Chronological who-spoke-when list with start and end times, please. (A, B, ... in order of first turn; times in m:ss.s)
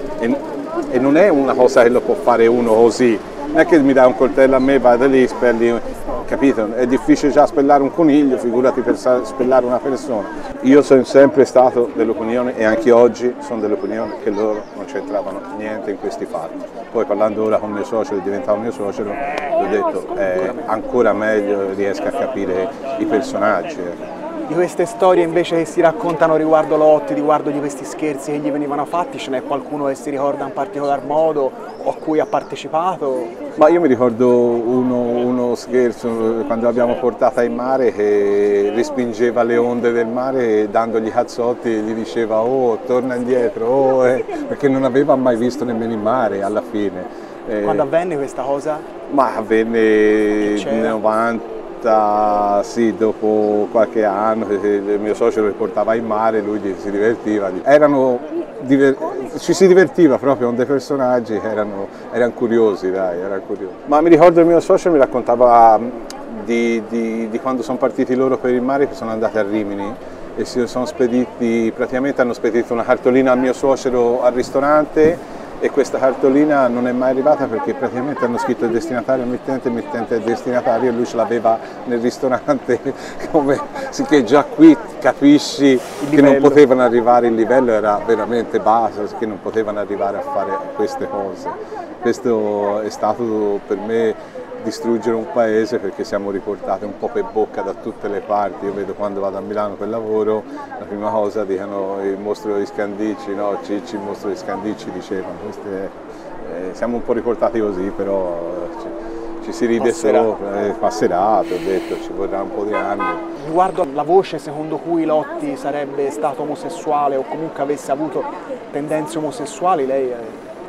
0:00.2-0:24.0 A
0:20.3-0:20.7 B
0:24.5-0:33.3 B
0:33.6-0:47.9 A
0:47.6-0:48.9 B
0:49.1-1:53.2 A
0:50.4-0:51.0 B
1:26.0-1:26.6 B
1:49.8-1:50.3 B
1:53.4-2:00.4 B